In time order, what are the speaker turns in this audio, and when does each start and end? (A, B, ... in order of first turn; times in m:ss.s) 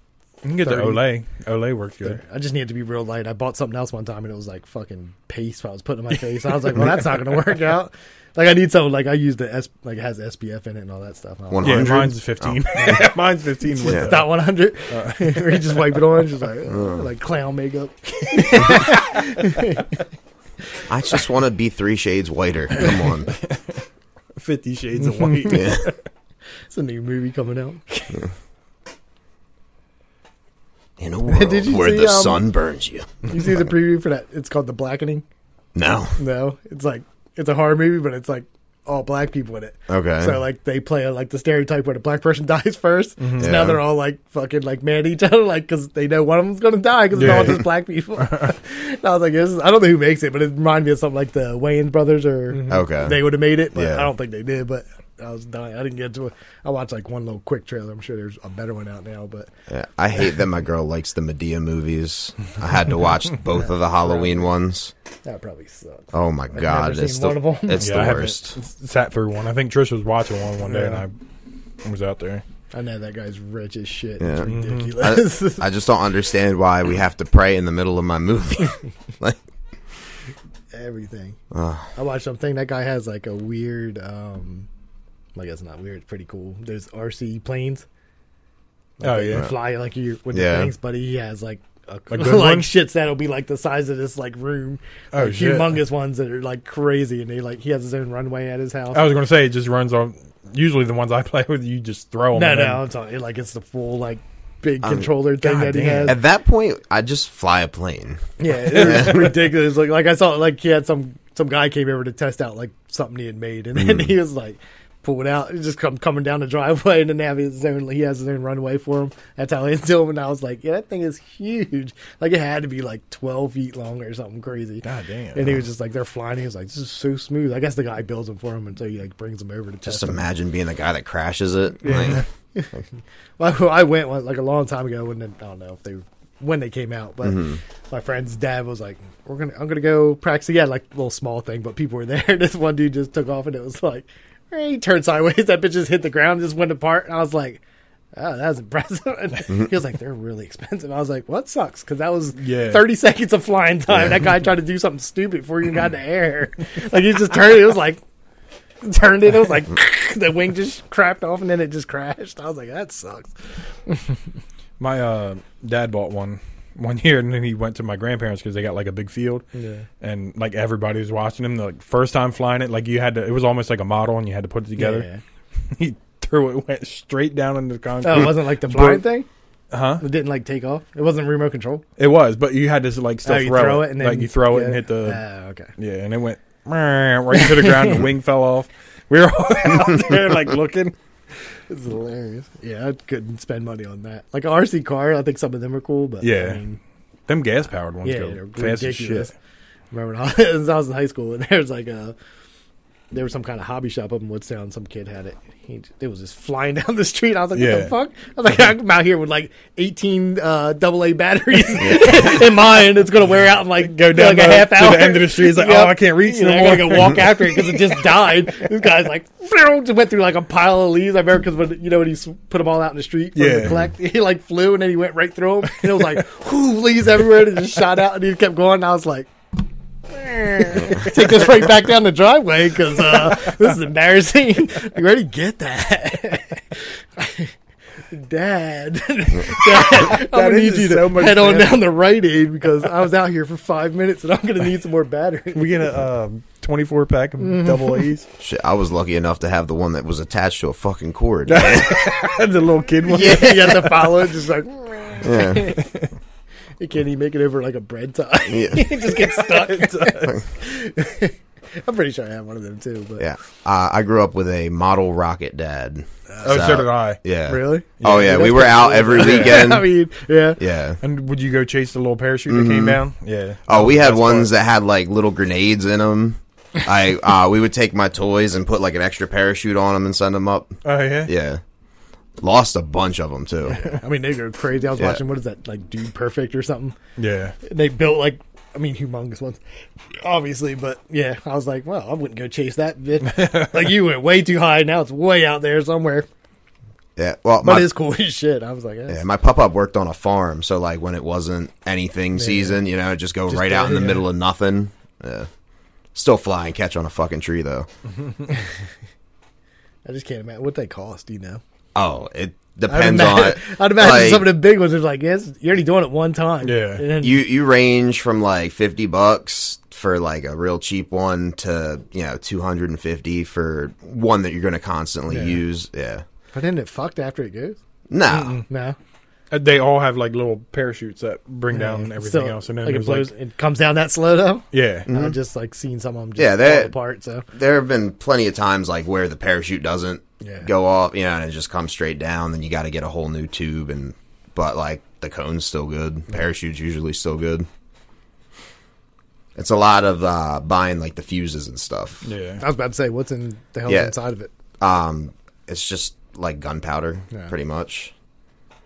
0:00.4-0:02.2 A
0:00.6-0:01.1 B
0:02.0-0:12.0 B
0:11.5-0:13.0 C
0:11.6-0:14.3 A
0:12.8-0:13.0 B
0:13.8-0:19.9 B
0:13.8-0:14.1 C
0:14.9-0:16.0 A
0:16.7-0:17.1 C
0:20.9-0:23.3 C
0:23.4-0:23.8 A
0:24.4-0:25.9 A
0:25.5-0:25.9 C
0:26.7-0:28.2 B
0:31.0-0:33.3 C
0:31.3-0:32.4 B
0:33.2-0:35.2 B
0:35.7-0:36.2 C
0:36.2-0:59.5 B
0:39.9-0:40.4 C
0:43.2-0:43.6 A
0:43.4-0:43.8 C
0:47.1-0:48.5 A
0:52.5-0:52.8 A
0:52.7-0:54.1 C
0:59.7-1:04.9 C
1:03.6-1:04.4 B
1:05.2-1:08.2 B
1:06.1-1:08.6 C
1:07.8-1:11.2 A
1:10.6-1:11.0 B
1:11.8-1:12.4 A
1:12.7-1:15.6 B
1:14.2-1:19.4 C
1:14.4-1:14.9 A
1:20.7-1:21.4 B
1:21.5-1:21.9 C
1:22.0-1:24.7 B
1:25.3-1:27.8 B
1:29.0-1:39.1 B
1:29.0-1:29.5 A
1:30.3-1:30.7 C
1:32.1-1:32.7 A
1:35.1-1:35.8 A
1:38.9-1:42.9 A
1:42.3-1:46.2 B
1:44.8-1:45.1 C
1:45.4-1:46.2 A
1:46.0-1:48.2 C
1:48.4-2:04.8 B
1:48.7-1:49.3 A
1:48.7-1:49.3 C
1:53.8-1:54.1 C
2:04.8-2:05.6 A
2:05.3-2:10.2 B
2:09.8-2:12.2 C
2:11.8-2:12.2 A
2:11.9-2:12.7 B
2:13.4-2:27.6 B
2:17.2-2:17.6 C
2:28.1-2:38.0 B
2:32.4-2:32.9 A
2:33.9-2:34.2 C
2:38.8-2:43.3 B
2:44.8-2:49.4 A
2:49.5-2:49.8 B
2:50.0-2:55.1 A
2:54.8-2:55.2 B
2:55.7-2:59.0 A
2:58.0-2:59.3 B
2:59.7-3:00.0 A
3:00.0-3:01.8 B
3:02.0-3:05.2 A
3:03.2-3:05.7 B
3:05.8-3:10.9 A
3:07.4-3:08.0 B
3:11.7-3:16.8 B
3:16.2-3:16.6 A
3:17.3-3:19.3 A
3:18.0-3:19.3 B
3:19.9-3:22.2 B
3:23.1-3:49.3 B
3:27.5-3:27.9 A
3:31.8-3:32.1 C
3:33.8-3:38.1 A
3:43.3-3:43.8 A
3:50.1-3:57.5 B
3:58.1-4:05.9 B
3:59.8-4:01.8 A
4:05.5-4:08.3 A
4:07.4-4:08.0 B
4:08.4-4:12.1 C
4:11.4-4:14.2 A
4:13.0-4:15.9 B
4:15.2-4:15.7 C
4:15.8-4:16.1 A
4:16.8-4:23.3 B
4:18.5-4:19.0 C
4:19.2-4:20.3 A
4:23.2-4:29.9 C
4:26.3-4:26.7 B
4:26.4-4:27.2 A
4:27.5-4:30.6 B
4:28.0-4:29.7 A
4:30.6-4:31.0 C
4:31.0-4:34.5 A
4:32.5-4:33.0 C
4:33.7-4:41.6 C
4:40.8-4:41.3 A
4:42.4-4:43.9 C
4:43.6-4:47.0 B
4:45.0-4:45.2 C
4:47.2-4:47.6 A
4:47.6-4:49.6 B
4:50.2-4:56.3 B
4:57.2-4:57.9 C
4:57.6-4:59.2 B
4:59.1-5:05.5 C
5:02.4-5:02.8 B
5:03.5-5:04.2 B
5:06.1-5:07.9 C
5:10.0-5:11.6 B
5:11.9-5:14.5 C
5:12.9-5:17.4 B
5:16.6-5:17.0 A
5:17.2-5:26.2 C
5:26.5-5:27.8 B
5:28.1-5:28.6 C
5:28.3-5:28.6 A
5:28.7-5:29.0 B
5:29.5-5:33.3 A
5:31.7-5:37.4 B
5:34.7-5:35.1 A
5:35.1-5:35.4 C
5:36.4-5:36.9 C
5:37.5-5:47.7 C
5:40.4-5:40.7 B
5:49.6-5:52.2 C
5:52.2-5:52.6 A
5:52.6-5:54.5 B
5:53.9-5:54.1 C
5:54.8-5:58.1 C